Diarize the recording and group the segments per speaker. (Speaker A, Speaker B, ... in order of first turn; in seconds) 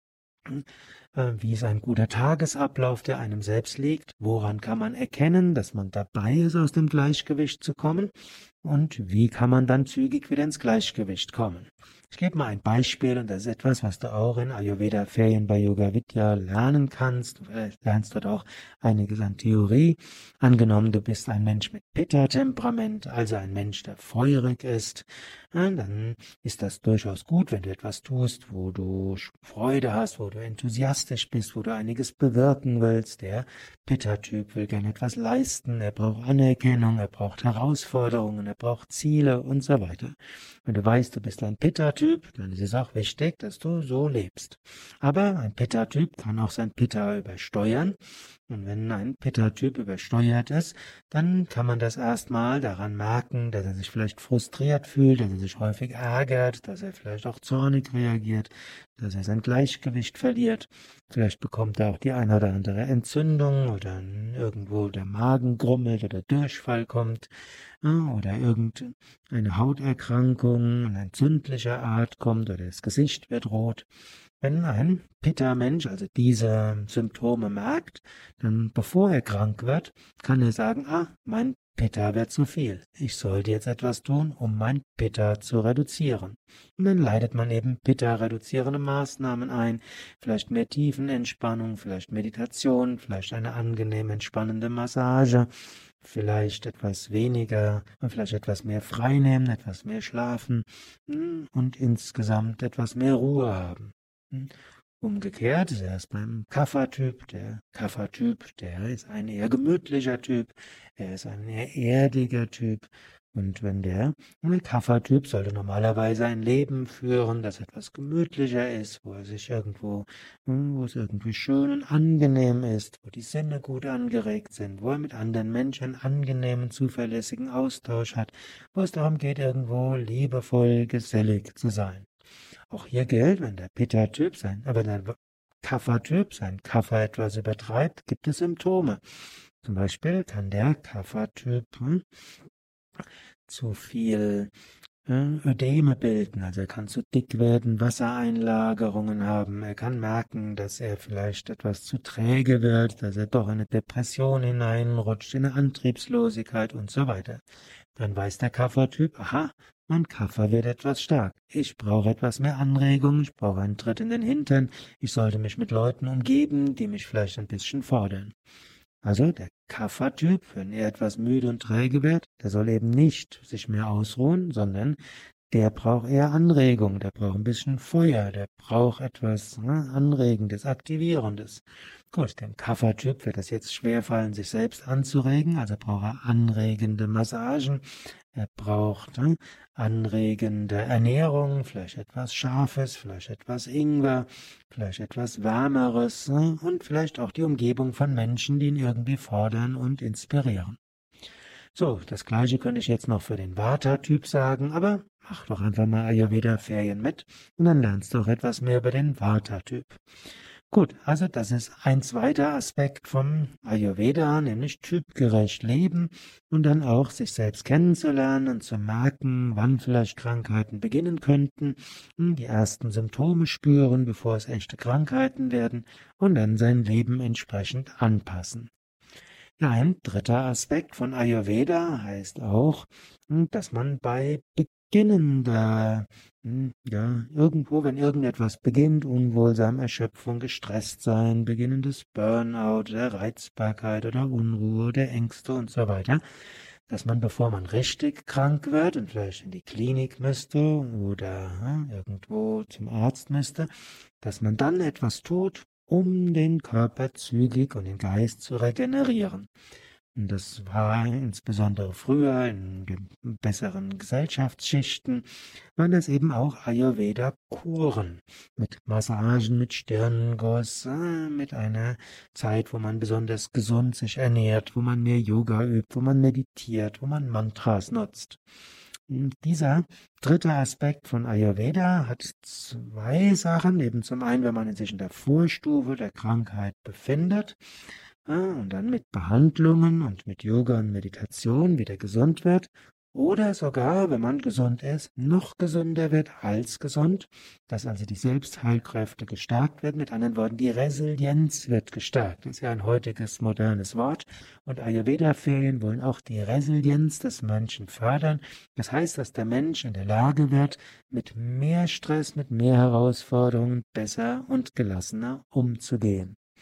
Speaker A: 0.5-73.9, 74.4-132.1, 132.7-139.0, 139.6-142.1, 143.5-144.5, 145.1-157.4, 157.9-168.3, 169.0-175.0, 175.5-200.8, 201.7-210.0, 210.7-228.7, 229.6-246.2, 246.9-253.7, 254.2-259.5, 260.1-278.4, 279.1-287.6, 288.2-316.4